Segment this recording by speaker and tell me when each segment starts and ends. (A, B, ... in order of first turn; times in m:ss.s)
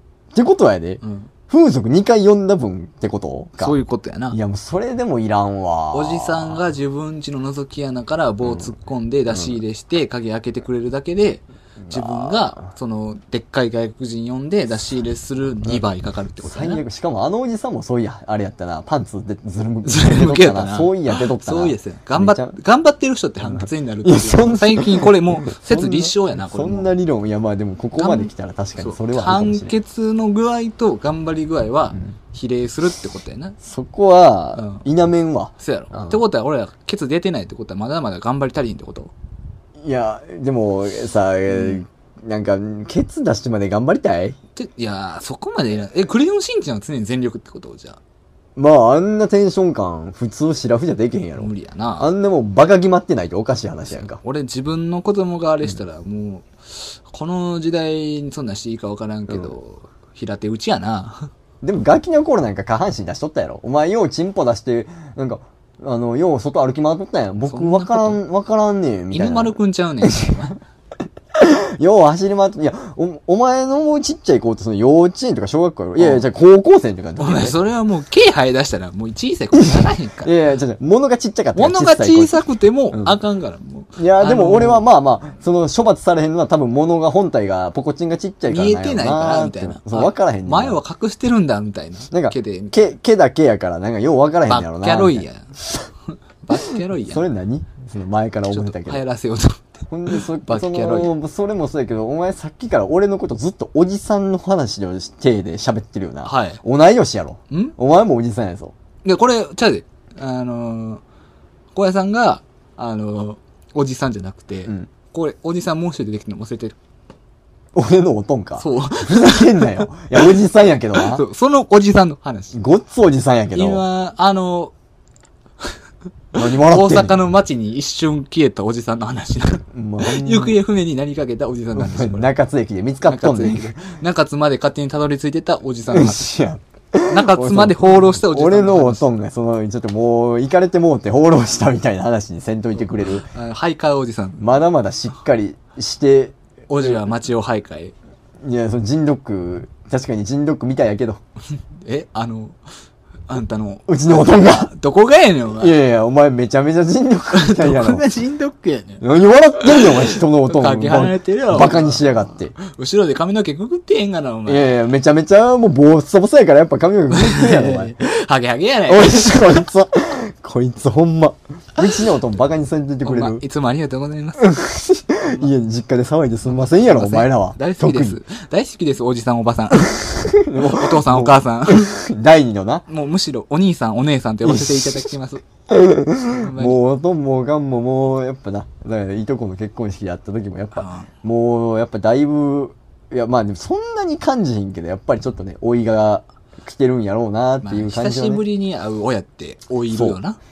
0:00.3-0:03.8 A
0:01.0-0:01.3 B
0:03.6-0:04.4 B
0:04.3-0:06.6 A
0:05.9-0:16.8 B
0:08.4-0:08.7 A
0:09.3-0:09.6 A
0:11.8-0:12.7 A
0:16.4-0:22.6 A
0:19.8-0:26.9 B
0:23.4-0:29.7 A
0:28.0-0:33.6 B
0:33.6-0:36.2 A
0:34.6-0:34.8 B
0:35.6-0:39.1 B
0:39.8-0:44.4 A
0:41.5-0:41.8 B
0:44.6-0:48.0 B
0:48.6-0:54.2 A
0:51.4-0:52.1 B
0:53.9-1:01.3 B
1:01.6-1:10.4 A
1:07.5-1:08.2 B
1:09.1-1:10.6 B
1:11.3-1:17.6 A
1:16.0-1:16.2 B
1:17.2-1:20.3 B
1:19.5-1:22.4 A
1:21.5-1:24.8 B
1:22.9-1:23.2 A
1:24.0-1:30.8 A
1:28.5-1:32.8 B
1:32.1-1:35.9 A
1:34.5-1:35.5 B
1:36.4-1:37.2 B
1:36.6-1:39.0 A
1:38.5-1:41.1 B
1:39.9-1:48.7 A
1:46.2-1:46.6 B
1:47.5-1:47.8 B
1:49.0-1:51.0 B
1:51.7-1:56.8 B
1:57.7-2:01.2 A
1:58.6-1:59.8 B
2:00.9-2:02.6 B
2:02.5-2:03.8 A
2:03.5-2:04.7 B
2:06.3-2:07.2 A
2:06.3-2:12.3 B
2:09.7-2:10.6 A
2:11.7-2:13.8 A
2:13.0-2:16.3 B
2:15.9-2:23.3 A
2:17.1-2:19.1 B
2:23.0-2:24.5 B
2:24.4-2:27.0 A
2:26.7-2:27.9 B
2:28.4-2:31.2 A
2:31.8-2:32.6 B
2:33.3-2:35.8 B
2:33.9-2:34.7 A
2:35.6-2:38.0 A
2:37.3-2:39.0 B
2:39.0-2:42.6 A
2:39.6-2:44.8 B
2:44.4-2:47.9 A
2:47.1-2:49.6 B
2:48.9-2:53.4 A
2:53.0-2:54.6 B
2:54.4-2:58.2 A
2:55.2-2:55.5 B
2:56.5-3:01.9 B
2:59.9-3:02.8 A
3:02.9-3:05.4 B
3:04.4-3:05.1 A
3:05.7-3:18.4 A
3:06.4-3:06.8 B
3:10.7-3:11.1 B
3:17.6-3:20.4 B
3:19.9-3:20.2 A